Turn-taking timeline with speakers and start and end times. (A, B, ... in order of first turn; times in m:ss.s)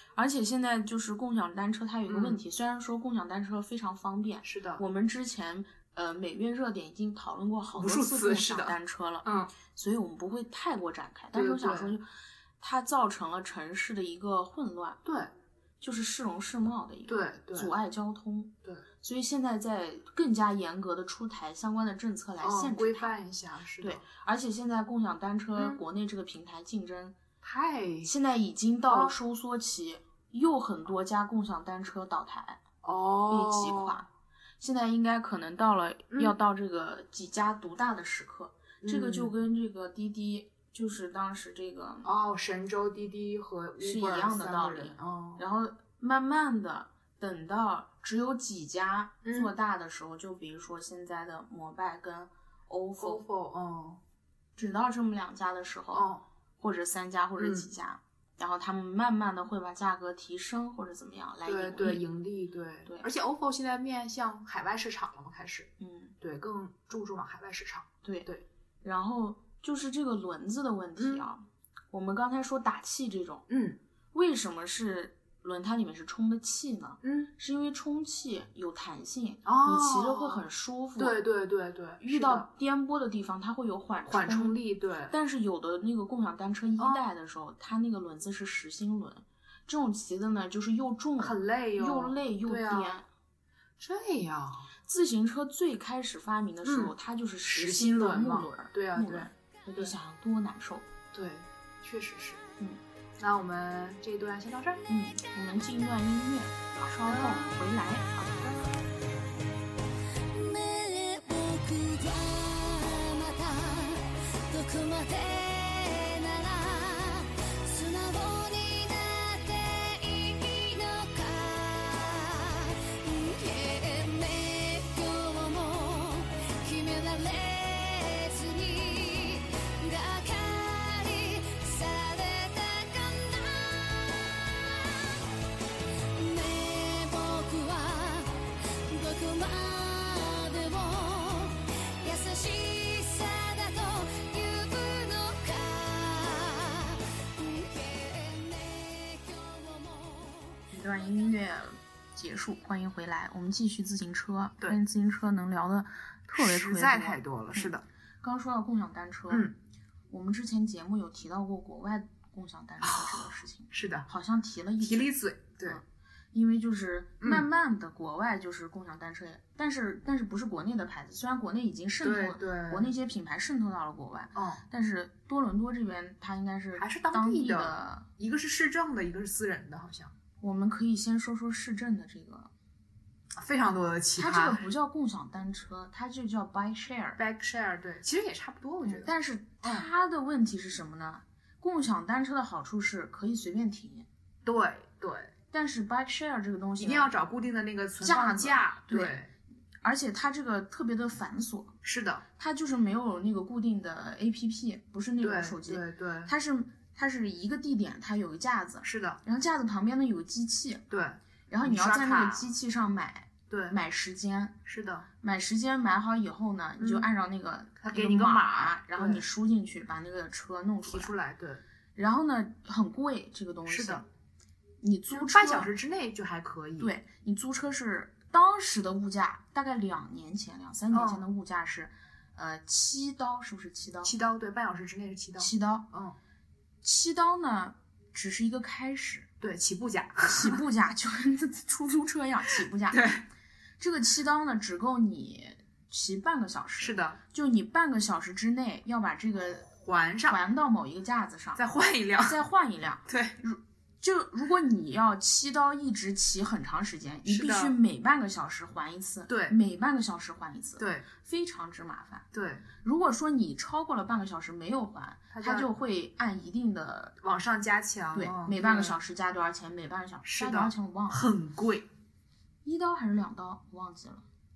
0:00.2-0:12.1 A
0:02.1-0:02.4 B
0:04.4-0:04.8 B
0:07.7-0:09.5 B
0:11.3-0:11.9 B
0:12.6-0:15.0 A
0:15.0-0:15.3 B
0:15.8-0:23.2 A
0:17.1-0:17.7 B
0:22.4-0:24.0 B
0:23.8-0:27.1 A
0:25.6-0:25.8 B
0:27.4-0:28.1 B
0:28.0-0:32.6 A
0:28.9-0:29.2 B
0:32.8-0:34.0 B
0:33.3-0:34.1 A
0:34.6-0:42.1 A
0:36.1-0:36.3 B
0:38.8-0:39.3 B
0:42.0-0:45.4 B
0:43.8-0:53.2 A
0:49.2-0:49.5 B
0:53.0-0:54.0 B
0:54.6-0:56.1 A
0:55.9-0:56.2 B
0:56.6-1:02.0 A
0:57.4-0:57.7 B
1:01.4-1:08.4 B
1:05.8-1:06.1 A
1:08.0-1:08.3 A
1:08.8-1:13.4 A
1:11.0-1:11.3 B
1:13.5-1:13.8 B
1:14.1-1:21.2 A
1:17.0-1:17.3 B
1:19.4-1:20.4 B
1:21.0-1:22.5 B
1:22.0-1:24.6 A
1:24.1-1:25.1 B
1:25.1-1:33.1 A
1:26.8-1:27.0 B
1:31.2-1:33.0 B
1:33.8-1:34.7 B
1:34.9-1:40.9 A
1:36.6-1:36.9 B
1:37.5-1:39.9 B
1:41.1-1:42.4 B
1:43.2-1:44.8 B
1:44.9-1:48.7 A
1:46.9-1:47.5 B
1:50.2-2:15.3 C
2:16.0-2:30.6 C
2:30.7-2:39.5 A
2:36.3-2:37.8 B
2:40.1-2:45.1 A
2:42.8-2:44.1 B
2:44.8-2:45.8 B
2:46.3-2:58.1 A
2:47.2-2:47.5 B
2:52.0-2:52.9 B
2:54.3-2:54.6 B
2:56.8-3:00.1 B
3:00.4-3:02.5 A
3:03.4-3:04.6 B
3:04.2-3:07.2 A
3:07.2-3:09.1 B
3:08.8-3:14.0 A
3:14.4-3:15.3 B
3:15.5-3:17.1 A
3:16.8-3:19.3 B
3:18.0-3:19.2 A
3:19.8-3:21.7 A
3:21.8-3:22.2 B
3:22.4-3:30.8 A
3:25.2-3:26.3 B
3:28.8-3:29.2 B
3:30.9-3:32.5 B
3:31.5-3:34.6 A
3:33.5-3:33.8 B
3:34.6-3:35.1 B
3:35.2-3:41.1 A
3:36.8-3:37.1 B
3:37.8-3:39.2 B
3:40.9-3:41.6 B
3:41.9-3:44.0 A
3:43.7-3:44.0 B
3:44.8-3:45.7 A
3:45.1-3:46.9 B
3:46.8-3:54.1 A
3:50.9-3:51.2 B
3:54.0-3:56.2 B
3:55.4-3:55.9 A
3:56.8-3:59.3 A
3:59.4-4:00.6 B
4:00.2-4:03.1 A
4:02.9-4:03.2 B
4:03.8-4:09.7 A
4:06.8-4:07.2 B
4:09.6-4:10.4 B
4:10.3-4:11.6 A
4:11.6-4:12.4 B
4:12.2-4:22.2 A
4:13.1-4:13.4 B
4:17.2-4:17.8 B
4:19.3-4:19.6 B
4:20.8-4:21.0 B
4:22.3-4:22.6 B
4:22.8-4:27.2 A
4:25.3-4:25.7 B
4:27.2-4:29.0 B
4:28.1-4:31.3 A
4:30.2-4:31.9 B
4:32.6-4:34.2 A